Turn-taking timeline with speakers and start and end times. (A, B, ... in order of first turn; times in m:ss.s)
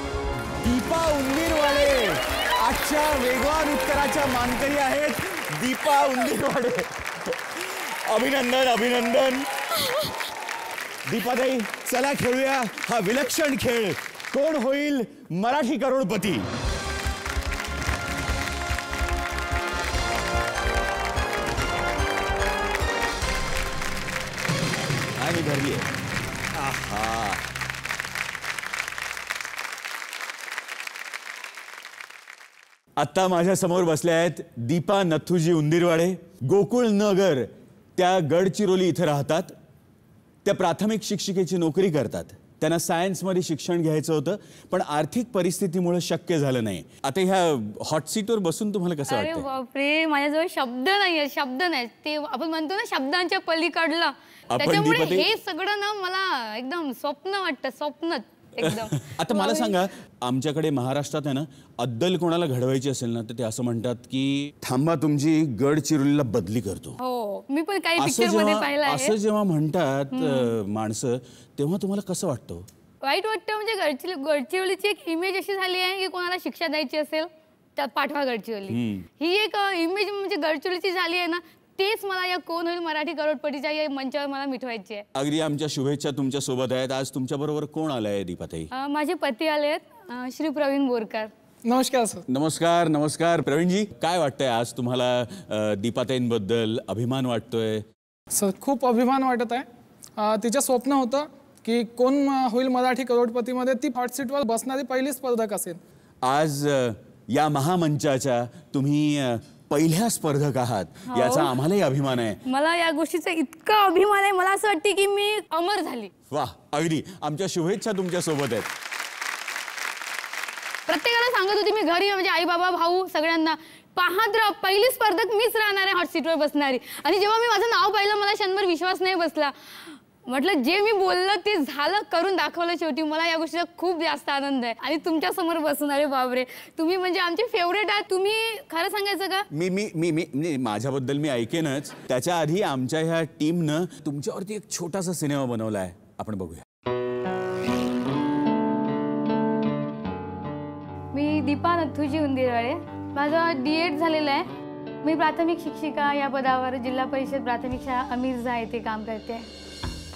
0:00.6-0:09.5 A
0:11.0-0:16.5 A
0:25.2-0:25.9 A
0:26.5-0:27.4 A
0:33.0-0:39.5 A
0:40.4-0:49.5 A
0:49.1-0:59.7 B
0:54.5-0:55.3 A
0:58.6-1:07.0 A
1:07.0-1:09.1 B
1:08.0-1:12.7 A
1:10.1-1:10.5 B
1:13.0-1:25.0 B
1:18.7-1:19.0 A
1:25.1-1:28.7 A
1:28.7-1:31.3 B
1:31.6-1:32.2 C
1:32.3-1:37.8 A
1:38.3-1:45.8 C
1:46.2-1:52.4 A
1:51.1-1:51.5 B
1:52.5-1:56.1 B
1:56.3-1:58.7 A
2:00.9-2:19.5 B
2:19.5-2:26.6 A
2:31.1-2:34.5 B
2:35.0-2:39.5 B